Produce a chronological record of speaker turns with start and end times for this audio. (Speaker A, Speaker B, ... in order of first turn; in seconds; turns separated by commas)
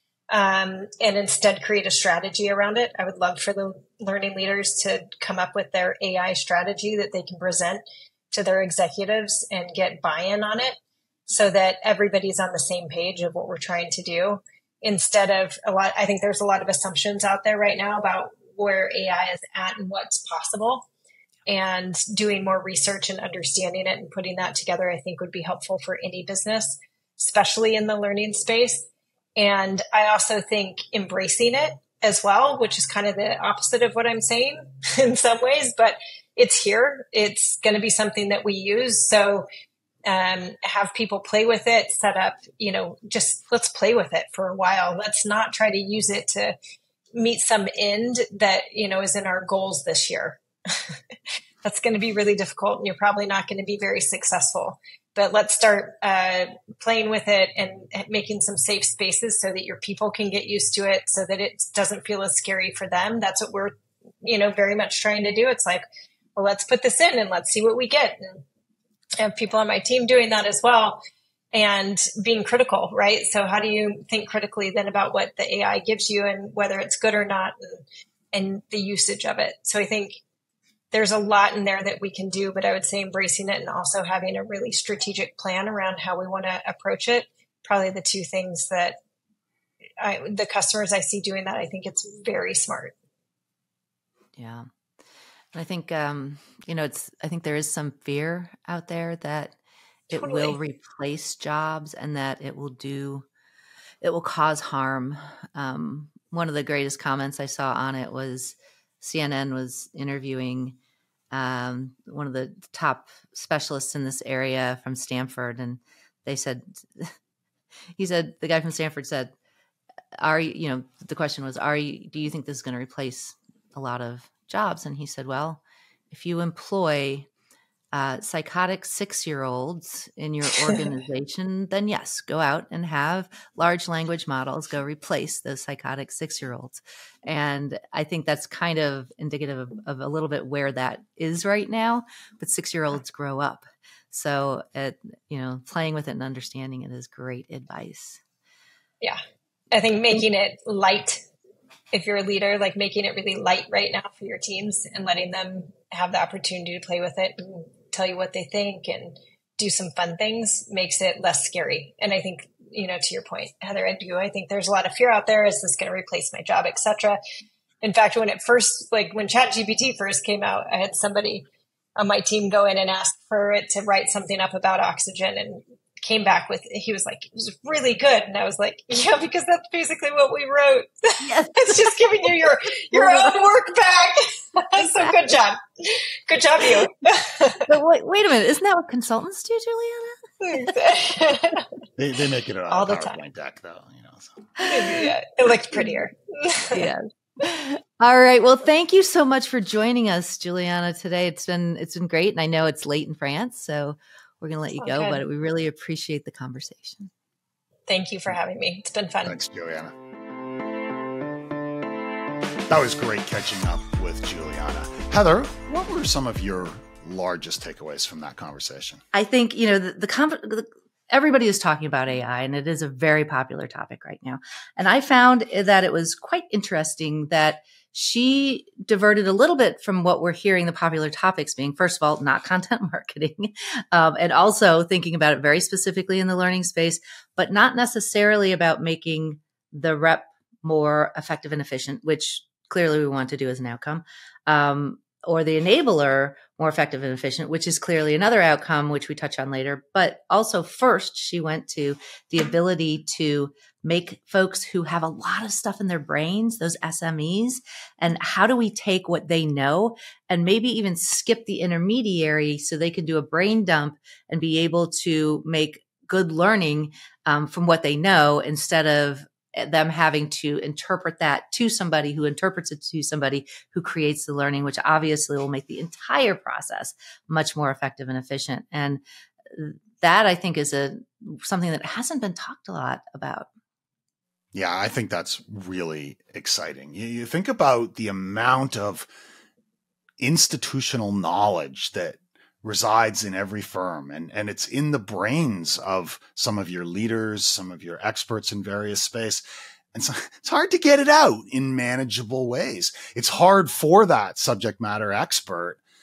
Speaker A: 0.3-20.9, Speaker A: 21.5-39.5, Speaker A: 40.1-46.5, Speaker A: 47.1-51.0, Speaker A: 51.6-65.8, Speaker A: 66.3-68.4, Speaker A: 69.2-80.2, Speaker A: 80.9-89.0, Speaker A: 90.0-92.9, Speaker B: 94.4-94.7, Speaker B: 95.5-99.5, Speaker B: 100.1-103.2, Speaker A: 100.1-100.6, Speaker B: 104.0-110.8, Speaker B: 111.3-117.1, Speaker B: 118.0-119.3, Speaker B: 120.2-127.3, Speaker B: 127.9-148.2, Speaker A: 149.7-151.2, Speaker A: 151.9-167.2, Speaker A: 167.8-171.4, Speaker A: 172.0-187.7, Speaker B: 181.2-182.0, Speaker B: 182.9-183.4, Speaker B: 184.8-185.3, Speaker B: 187.7-190.2, Speaker A: 190.4-191.7, Speaker C: 192.0-194.4, Speaker A: 192.7-193.2, Speaker A: 194.6-196.9, Speaker B: 194.6-195.1, Speaker B: 196.7-207.1, Speaker A: 204.8-205.2, Speaker A: 207.9-209.4, Speaker C: 209.2-209.9, Speaker C: 212.7-219.0, Speaker B: 219.1-279.0, Speaker B: 279.5-283.5, Speaker C: 284.5-289.1, Speaker C: 290.2-305.8